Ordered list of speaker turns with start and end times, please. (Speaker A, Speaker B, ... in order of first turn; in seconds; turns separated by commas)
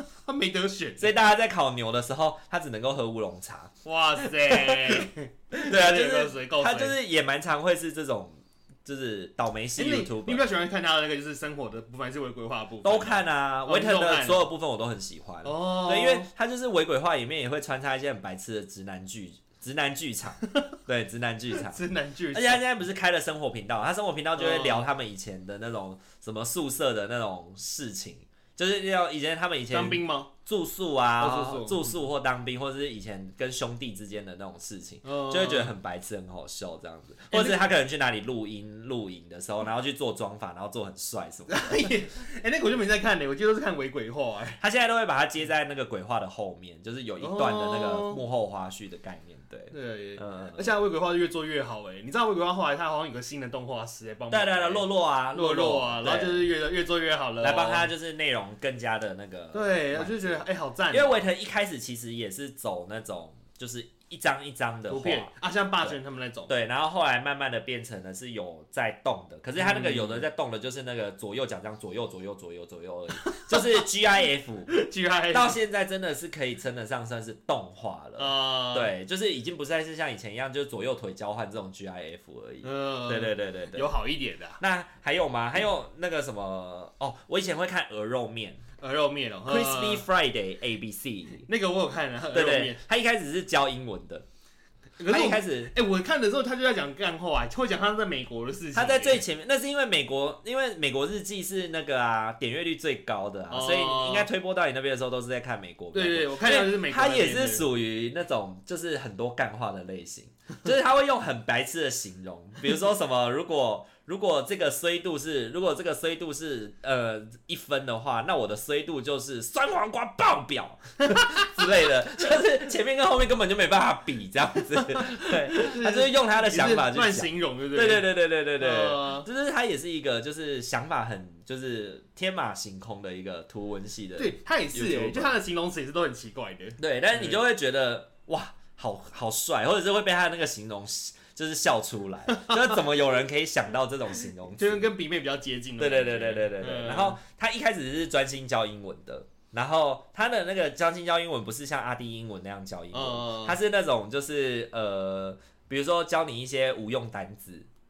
Speaker A: 0.2-1.1, Speaker B: 1.0-10.4, Speaker A: 3.9-7.0, Speaker A: 9.8-14.4, Speaker B: 12.8-41.9, Speaker A: 15.4-16.3, Speaker A: 21.6-22.6, Speaker A: 24.4-24.9, Speaker A: 29.7-30.3, Speaker A: 31.2-32.0, Speaker A: 35.0-35.8, Speaker A: 37.3-37.6, Speaker A: 41.5-44.6, Speaker B: 44.6-50.7, Speaker A: 47.2-48.2, Speaker A: 49.7-57.9, Speaker B: 54.3-56.5, Speaker B: 57.4-65.3, Speaker A: 59.5-61.2, Speaker A: 64.9-66.5, Speaker B: 66.5-74.7, Speaker A: 69.5-70.2, Speaker A: 73.2-73.8, Speaker A: 74.7-75.6, Speaker B: 75.3-83.9, Speaker A: 78.2-78.9, Speaker A: 82.6-84.6, Speaker B: 84.6-88.6, Speaker A: 88.8-90.0, Speaker B: 89.5-91.5, Speaker A: 91.5-92.8, Speaker B: 92.3-94.2, Speaker A: 95.0-99.2, Speaker B: 95.1-95.7, Speaker B: 98.7-135.3, Speaker A: 103.5-104.3, Speaker A: 105.9-107.7, Speaker A: 121.0-121.5, Speaker A: 124.8-129.3, Speaker A: 134.2-137.4, Speaker B: 136.8-144.9, Speaker A: 142.3-142.7, Speaker A: 144.6-147.2, Speaker B: 145.8-157.7, Speaker A: 152.9-153.6